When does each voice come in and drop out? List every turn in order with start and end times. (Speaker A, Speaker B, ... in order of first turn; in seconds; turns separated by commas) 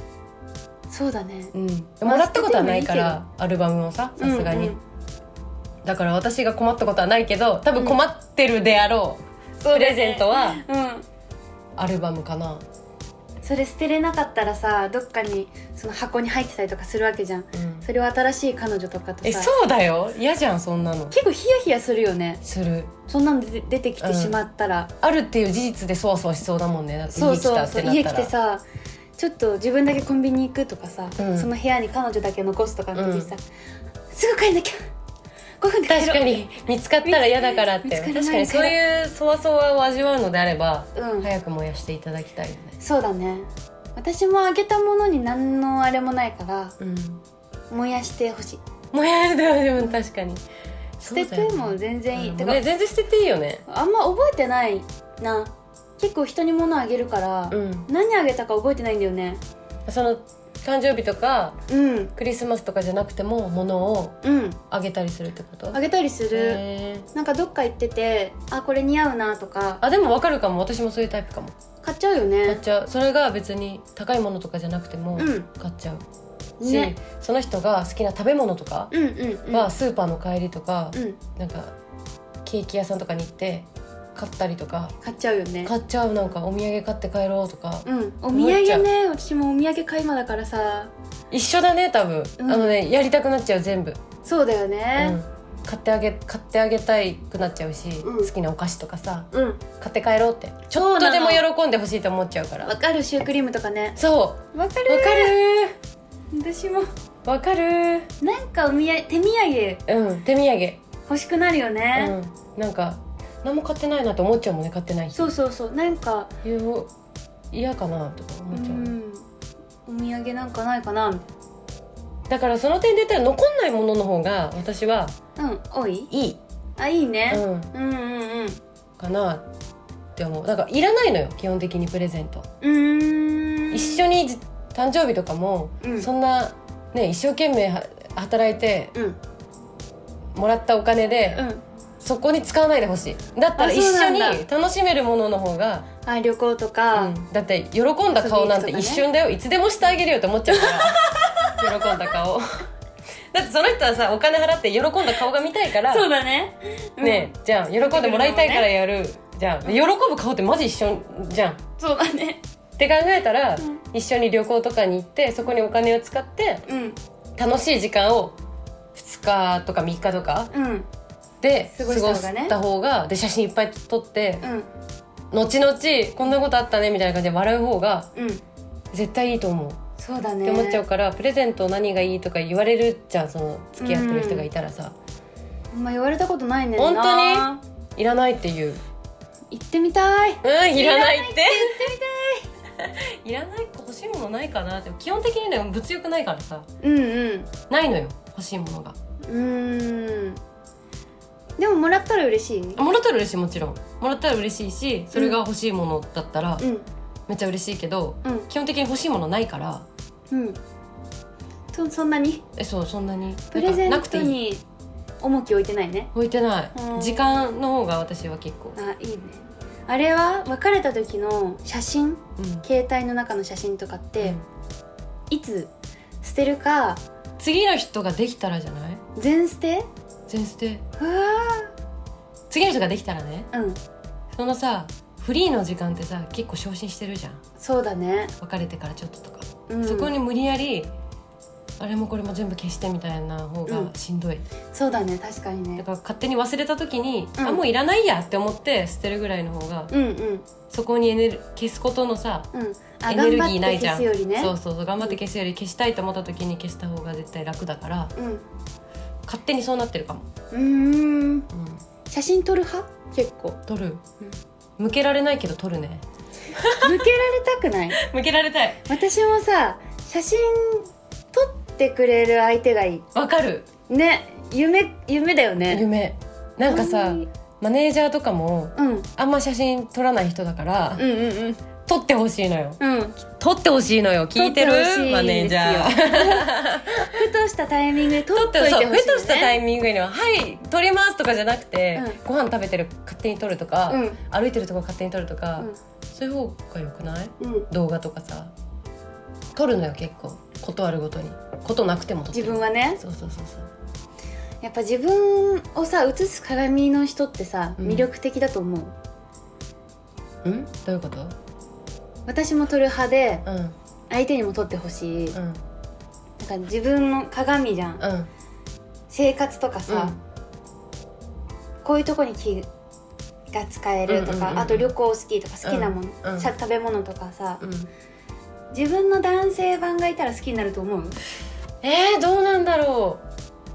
Speaker A: 0.9-3.2, Speaker B: 1.5-4.8, Speaker A: 4.2-4.8, Speaker B: 5.8-10.6, Speaker A: 9.6-11.1, Speaker B: 11.8-12.7, Speaker A: 13.4-19.5, Speaker B: 17.5-17.9, Speaker B: 19.2-21.2, Speaker A: 21.1-22.4, Speaker B: 22.4-22.9, Speaker A: 23.1-24.9, Speaker B: 24.0-24.4, Speaker B: 25.0-28.3, Speaker A: 27.1-28.6, Speaker A: 29.2-33.4, Speaker B: 31.2-31.5, Speaker B: 33.0-33.3, Speaker A: 34.1-34.8, Speaker A: 35.6-36.4, Speaker B: 35.9-42.8, Speaker A: 37.0-38.8, Speaker A: 41.0-41.3, Speaker A: 42.8-46.8, Speaker B: 46.8-47.2, Speaker A: 47.7-48.6, Speaker B: 48.9-50.4, Speaker B: 51.0-53.6, Speaker A: 51.1-52.6, Speaker A: 53.7-59.4, Speaker B: 57.5-57.9, Speaker B: 59.9-61.6, Speaker A: 61.7-62.1, Speaker B: 62.1-64.2, Speaker A: 64.2-64.6, Speaker B: 64.7-65.8, Speaker A: 65.7-66.6, Speaker B: 66.3-67.1, Speaker A: 67.1-69.8, Speaker B: 69.8-71.5, Speaker A: 71.8-72.6, Speaker B: 72.5-76.0, Speaker A: 75.2-75.5, Speaker A: 76.6-77.0, Speaker B: 76.6-78.9, Speaker A: 78.9-79.7, Speaker B: 79.5-81.8, Speaker A: 80.9-81.2, Speaker B: 82.4-85.0, Speaker A: 85.0-85.7, Speaker B: 85.6-88.9, Speaker A: 87.9-90.9, Speaker B: 91.3-94.0, Speaker A: 92.4-92.8, Speaker A: 94.2-95.2, Speaker B: 95.0-102.7, Speaker A: 98.0-98.3, Speaker A: 100.7-101.5, Speaker A: 102.6-104.0, Speaker B: 104.0-105.7, Speaker A: 104.5-105.4, Speaker A: 106.3-106.9, Speaker B: 107.2-108.1, Speaker A: 108.2-109.8, Speaker B: 109.9-110.8, Speaker A: 111.1-112.2, Speaker B: 112.0-115.3, Speaker A: 115.2-116.3, Speaker B: 116.4-116.9, Speaker B: 117.5-119.0, Speaker A: 118.5-119.3, Speaker A: 119.9-121.3, Speaker B: 122.3-125.2, Speaker A: 125.4-126.1, Speaker B: 126.1-126.4, Speaker A: 126.8-128.6, Speaker B: 127.3-127.7, Speaker B: 129.0-129.5, Speaker B: 130.2-132.5, Speaker A: 132.6-134.0, Speaker B: 133.7-138.9, Speaker A: 135.8-136.1, Speaker B: 140.3-141.4, Speaker A: 141.3-141.6, Speaker B: 142.0-145.9, Speaker A: 143.6-144.4, Speaker A: 146.1-147.2, Speaker B: 146.9-152.7, Speaker A: 148.1-149.1, Speaker A: 150.5-152.0, Speaker B: 153.3-156.1, Speaker A: 155.9-158.7, Speaker B: 157.0-161.6, Speaker A: 161.8-162.4, Speaker B: 162.8-166.7, Speaker A: 166.7-167.0, Speaker B: 167.4-168.4, Speaker B: 168.9-170.5, Speaker A: 170.5-170.9, Speaker B: 171.4-174.5, Speaker A: 171.7-172.6, Speaker A: 174.4-174.7, Speaker B: 175.3-178.1, Speaker A: 178.2-178.4, Speaker B: 178.9-179.8, Speaker A: 180.0-180.8, Speaker B: 180.4-184.9, Speaker A: 183.8-184.5, Speaker A: 185.7-187.6, Speaker B: 186.8-188.8, Speaker A: 189.5-192.5, Speaker B: 190.4-191.9, Speaker B: 192.8-196.7, Speaker A: 196.8-197.5, Speaker B: 197.7-199.0, Speaker A: 199.3-200.4, Speaker A: 201.6-202.8, Speaker B: 202.8-206.7, Speaker A: 206.6-206.9, Speaker B: 207.3-209.9, Speaker A: 210.3-210.6, Speaker A: 211.7-212.4, Speaker B: 212.6-214.4, Speaker A: 213.5-214.6, Speaker A: 215.2-216.1, Speaker B: 216.1-218.8, Speaker A: 216.8-217.3, Speaker A: 218.8-224.4, Speaker B: 222.4-222.7, Speaker A: 225.3-225.7, Speaker A: 226.2-227.0, Speaker B: 227.4-229.0, Speaker A: 229.2-229.9, Speaker B: 230.3-230.8, Speaker A: 231.0-231.7, Speaker B: 232.5-233.5, Speaker A: 233.5-233.8, Speaker B: 234.3-237.4, Speaker A: 237.6-238.3, Speaker B: 238.4-240.9, Speaker A: 239.7-240.1, Speaker B: 241.8-244.4, Speaker A: 243.7-243.9, Speaker A: 244.7-245.8, Speaker B: 245.8-249.9, Speaker A: 247.4-247.6, Speaker A: 249.9-250.5, Speaker B: 250.7-252.5, Speaker A: 252.5-255.2, Speaker B: 253.1-258.1, Speaker A: 258.2-258.4, Speaker B: 259.3-260.3, Speaker A: 260.5-261.5, Speaker B: 261.5-261.8, Speaker A: 262.1-263.6, Speaker B: 263.7-264.0, Speaker B: 264.8-267.0, Speaker A: 266.8-268.0, Speaker B: 267.9-268.8, Speaker A: 268.9-273.0, Speaker B: 273.1-273.7, Speaker A: 273.9-275.9, Speaker B: 275.7-281.0, Speaker A: 276.7-277.3, Speaker A: 278.8-279.1, Speaker A: 281.0-281.6, Speaker B: 281.9-287.2, Speaker A: 282.8-283.2, Speaker A: 284.4-289.6, Speaker B: 288.3-298.5, Speaker A: 293.9-294.2, Speaker A: 297.4-297.7, Speaker B: 299.6-303.7, Speaker A: 302.3-303.0, Speaker A: 304.6-308.9, Speaker B: 307.8-308.1, Speaker B: 310.4-311.4, Speaker A: 312.3-313.4, Speaker B: 313.5-313.8, Speaker A: 314.1-315.4, Speaker B: 315.3-315.6, Speaker A: 316.4-318.0, Speaker B: 318.0-318.3, Speaker A: 319.1-320.2, Speaker B: 319.9-320.2, Speaker A: 321.8-322.7, Speaker A: 323.5-327.6, Speaker B: 324.1-324.9, Speaker B: 325.6-326.5, Speaker B: 327.6-327.9, Speaker A: 328.7-331.2, Speaker B: 331.8-333.2